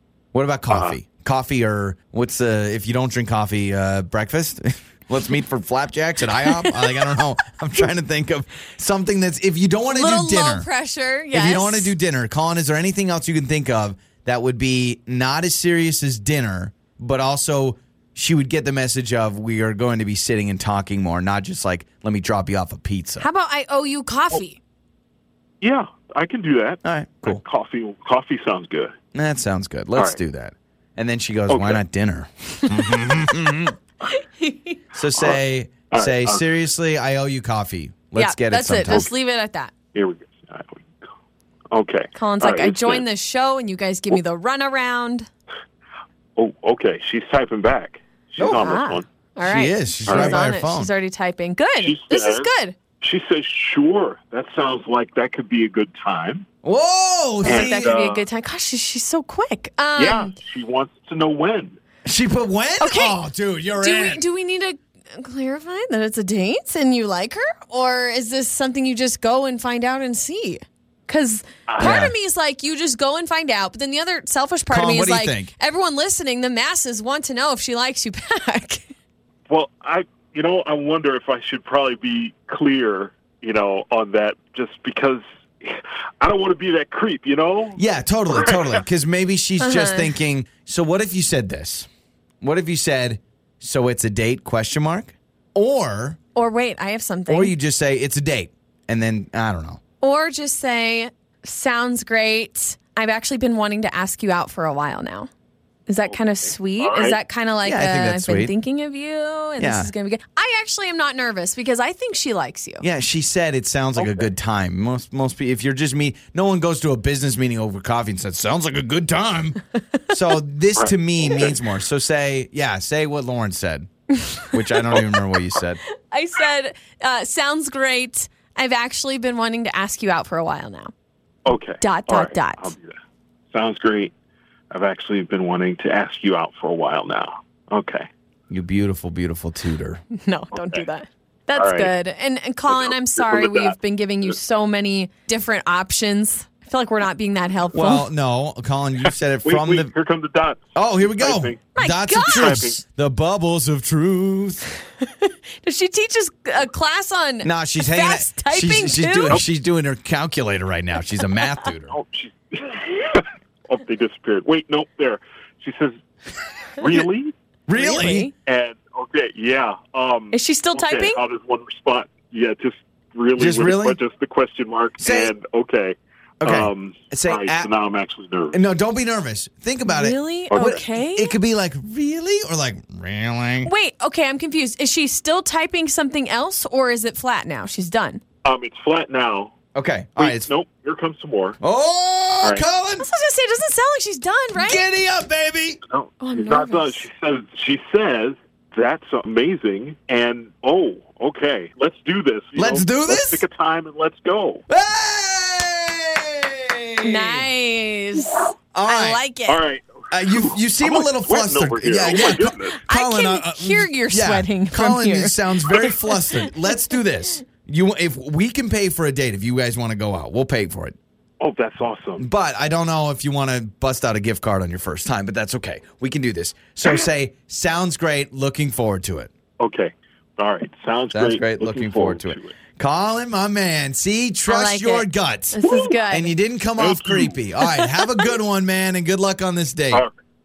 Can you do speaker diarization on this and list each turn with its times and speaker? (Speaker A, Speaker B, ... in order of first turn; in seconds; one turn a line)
Speaker A: 0.3-10.7
Speaker B: 0.7-0.9
Speaker C: 6.5-6.8
Speaker C: 9.9-11.9
Speaker A: 11.3-23.3
Speaker C: 23.2-24.6
Speaker B: 25.6-28.9
Speaker A: 26.8-27.4
Speaker A: 29.1-33.7
Speaker B: 31.5-31.8
Speaker C: 34.0-34.8
Speaker A: 34.9-39.1
Speaker B: 35.1-35.4
Speaker B: 35.9-36.4
Speaker C: 38.1-39.7
Speaker B: 39.9-41.0
Speaker B: 41.7-43.0
Speaker C: 42.1-45.3
Speaker B: 46.4-49.0
Speaker A: 48.4-48.7
Speaker C: 48.6-52.7
Speaker A: 49.4-50.9
Speaker B: 50.1-50.4
Speaker B: 51.8-52.5
Speaker B: 53.0-56.5
Speaker A: 56.6-57.9
Speaker B: 57.4-58.2
Speaker C: 57.4-60.3
Speaker B: 60.0-61.8
Speaker A: 62.0-64.2
Speaker C: 62.8-63.2
Speaker C: 63.8-78.9
Speaker B: 71.7-72.1
Speaker A: 71.8-72.1
Speaker A: 74.7-75.5
Speaker B: 79.5-88.8
Speaker A: 87.8-91.9
Speaker C: 89.6-90.1
Speaker A: 92.4-96.2
Speaker C: 96.3-97.5
Speaker A: 97.3-99.8
Speaker C: 100.0-105.3
Speaker C: 105.9-112.8
Speaker B: 106.8-107.2
Speaker A: 107.6-108.5
Speaker A: 109.6-109.9
Speaker A: 112.8-123.9
Speaker B: 114.0-114.2
Speaker B: 120.8-121.6
Speaker A: 124.5-125.8
Speaker C: 126.1-130.9
Speaker B: 131.4-132.9
Speaker C: 131.8-132.7
Speaker B: 133.5-134.1
Speaker B: 134.7-138.1
Speaker A: 138.5-140.0
Speaker C: 140.1-148.1
Speaker B: 140.5-140.8
Speaker B: 141.5-141.9
Speaker B: 142.7-144.3
Speaker A: 147.7-149.9
Speaker B: 149.4-151.7
Speaker A: 150.7-154.7
Speaker C: 151.7-152.6
Speaker B: 152.2-152.8
Speaker C: 155.1-159.4
Speaker A: 157.4-161.9
Speaker B: 161.9-165.9
Speaker B: 166.8-167.3
Speaker A: 167.7-168.3
Speaker C: 167.7-168.3
Speaker B: 168.4-178.6
Speaker C: 170.3-171.2
Speaker A: 173.4-174.0
Speaker A: 175.0-175.3
Speaker A: 176.4-177.7
Speaker A: 178.5-183.7
Speaker C: 179.8-181.3
Speaker B: 180.5-180.8
Speaker C: 183.6-188.2
Speaker B: 188.4-189.5
Speaker A: 189.7-190.5
Speaker B: 190.2-191.6
Speaker A: 191.6-193.1
Speaker C: 193.0-194.8
Speaker A: 194.5-195.8
Speaker B: 195.9-204.6
Speaker C: 196.2-197.1
Speaker A: 202.6-203.4
Speaker A: 204.7-207.5
Speaker C: 207.0-209.6
Speaker A: 208.7-209.2
Speaker B: 209.5-212.8
Speaker A: 210.1-220.9
Speaker C: 212.8-216.5
Speaker B: 221.4-222.3
Speaker A: 222.2-229.3
Speaker B: 229.6-232.6
Speaker A: 231.1-235.6
Speaker C: 234.5-236.3
Speaker B: 235.6-236.0
Speaker A: 236.1-240.0
Speaker B: 236.8-237.3